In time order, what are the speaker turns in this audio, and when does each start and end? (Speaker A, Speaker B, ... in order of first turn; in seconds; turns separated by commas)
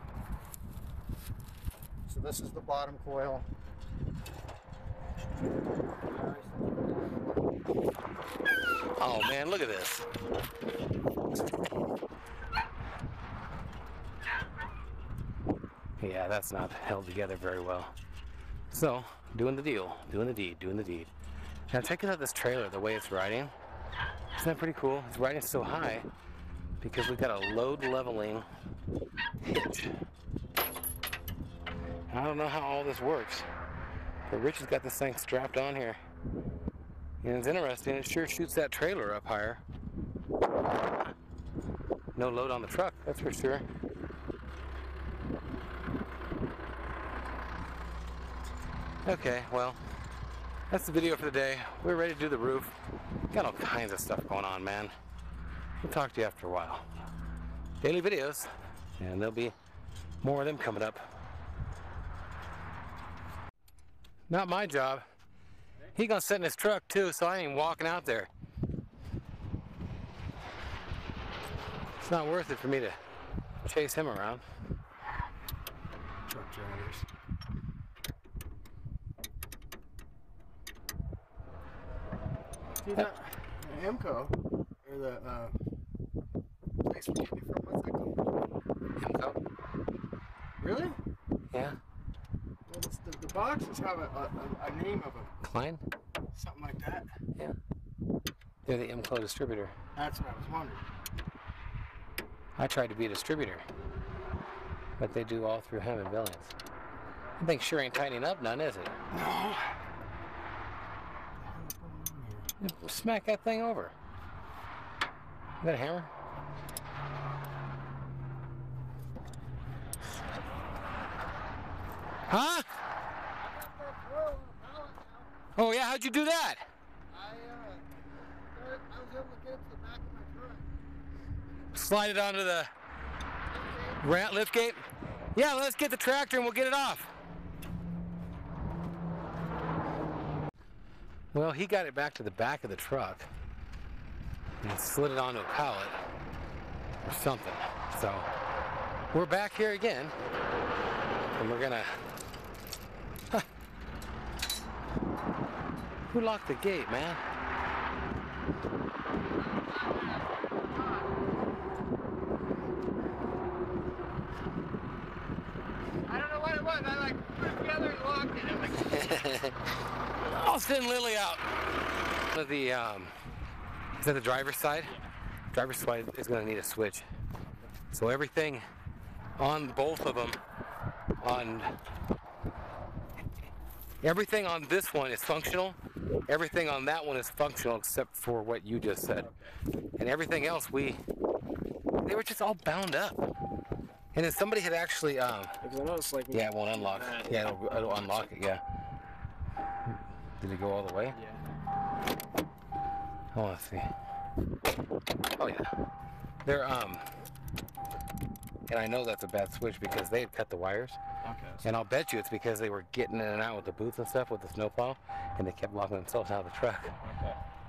Speaker A: 2.1-3.5, Speaker A: 6.0-7.6, Speaker B: 9.0-10.1, Speaker B: 16.0-17.9, Speaker B: 18.7-21.1, Speaker B: 21.7-23.5, Speaker B: 24.4-26.1, Speaker B: 26.8-28.5, Speaker B: 29.4-29.9, Speaker B: 32.1-33.5, Speaker B: 34.3-36.0, Speaker B: 37.2-39.6, Speaker B: 42.1-43.6, Speaker B: 49.0-49.8, Speaker B: 50.7-52.7, Speaker B: 53.3-54.9, Speaker B: 55.8-56.9, Speaker B: 57.8-59.5, Speaker B: 60.2-61.0, Speaker B: 64.3-65.0, Speaker B: 65.9-68.3, Speaker B: 72.0-73.0, Speaker B: 73.6-74.4, Speaker C: 76.2-77.0, Speaker C: 82.8-85.5, Speaker C: 86.8-88.2, Speaker B: 89.0-89.4, Speaker C: 90.6-91.0, Speaker B: 91.5-91.8, Speaker C: 92.7-95.3, Speaker B: 95.4-95.8, Speaker C: 96.3-97.1, Speaker B: 98.7-99.7, Speaker C: 100.0-100.8, Speaker B: 102.6-103.6, Speaker B: 105.0-106.5, Speaker B: 107.4-108.9, Speaker C: 109.1-109.7, Speaker C: 111.4-112.5, Speaker B: 112.6-113.9, Speaker B: 115.6-116.1, Speaker A: 120.6-121.5, Speaker B: 122.3-122.7, Speaker A: 123.4-125.3, Speaker B: 125.5-126.7, Speaker A: 127.1-127.8, Speaker A: 128.5-130.7, Speaker B: 131.7-132.7, Speaker A: 133.5-134.3, Speaker B: 134.0-134.8, Speaker B: 135.3-137.1, Speaker B: 141.3-143.3, Speaker B: 144.6-145.9, Speaker B: 147.0-148.3, Speaker B: 149.1-150.1, Speaker B: 151.3-151.9, Speaker B: 156.1-157.2, Speaker A: 159.6-160.5, Speaker C: 160.6-161.1, Speaker C: 166.1-168.9, Speaker B: 168.8-169.6, Speaker B: 170.2-171.4, Speaker B: 172.3-173.1, Speaker B: 174.0-174.9, Speaker B: 175.5-177.1, Speaker B: 177.9-178.6, Speaker B: 179.4-180.4, Speaker B: 181.2-181.7, Speaker B: 184.0-185.8, Speaker B: 186.3-189.3, Speaker C: 189.2-189.5, Speaker B: 190.0-191.0, Speaker B: 192.0-193.3, Speaker B: 194.1-195.6, Speaker C: 195.6-197.5, Speaker B: 196.3-198.6, Speaker B: 200.4-201.2, Speaker C: 201.1-201.4, Speaker B: 203.3-203.9, Speaker B: 205.3-205.7, Speaker B: 206.4-207.1, Speaker B: 208.7-211.0, Speaker C: 211.2-211.6, Speaker B: 211.6-216.9, Speaker C: 217.0-217.4